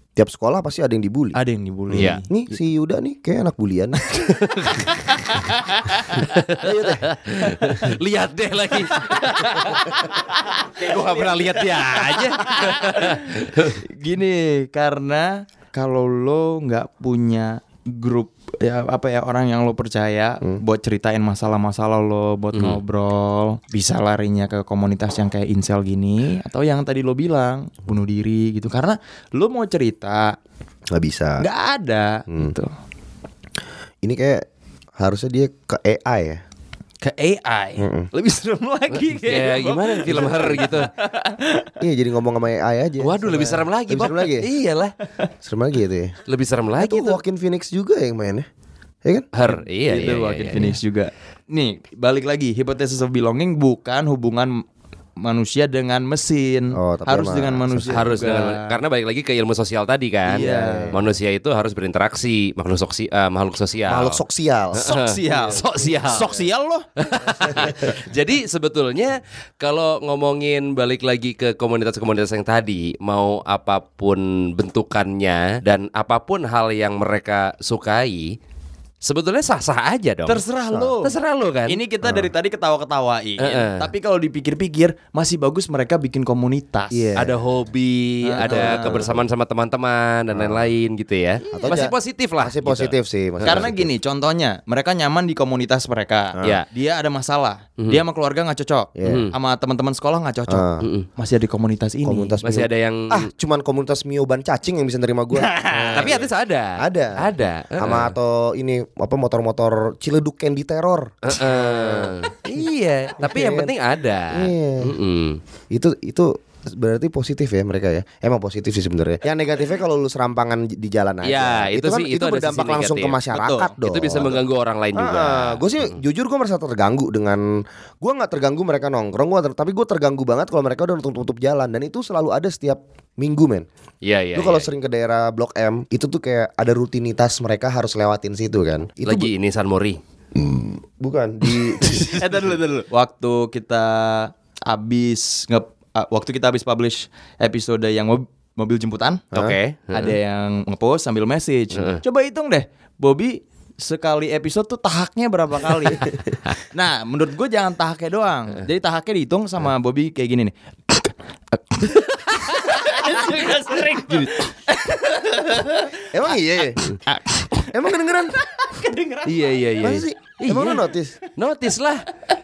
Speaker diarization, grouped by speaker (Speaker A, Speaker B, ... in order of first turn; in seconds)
Speaker A: 0.2-1.4, 1.9-4.1, 6.6-7.1, 30.9-31.4, 34.0-34.5, 35.0-36.4, 37.8-38.1, 41.8-44.5, 45.4-46.1, 46.8-48.5, 56.7-58.2, 60.3-61.1, 63.9-65.6, 82.0-82.3, 86.9-87.4, 88.5-89.2, 90.3-90.7, 91.5-93.9, 99.0-99.3, 100.5-100.9, 102.0-112.7, 113.2-113.7, 114.3-115.0, 115.7-124.4, 125.0-133.7, 134.3-139.3, 140.3-142.2, 166.1-166.8, 167.7-168.4, 169.8-171.2
Speaker B: 1.4-2.3, 4.1-6.2, 9.0-30.4, 31.4-32.7, 37.0-41.7, 49.5-54.6, 55.2-58.8, 60.3-60.9, 64.8-66.9, 80.3-81.1, 81.7-87.1, 88.2-89.1, 93.4-102.4, 105.3-106.2, 123.3-123.7, 142.1-149.3, 149.9-166.1, 166.9-167.7, 168.5-169.4
Speaker C: 1.9-2.2, 4.4-5.4, 6.3-10.1, 10.7-13.8, 22.5-22.8, 39.1-40.9, 43.0-44.9, 46.3-47.2, 49.3-50.8, 57.9-64.2, 64.7-66.4, 67.0-78.4, 79.0-80.4, 81.0-81.8, 83.4-83.9, 87.2-93.7, 99.0-99.3, 102.4-103.3, 106.0-108.2, 111.3-115.4, 121.2-123.2, 123.8-125.9, 134.0-134.7, 139.0-140.0, 149.3-150.2, 151.7-152.0, 169.2-172.1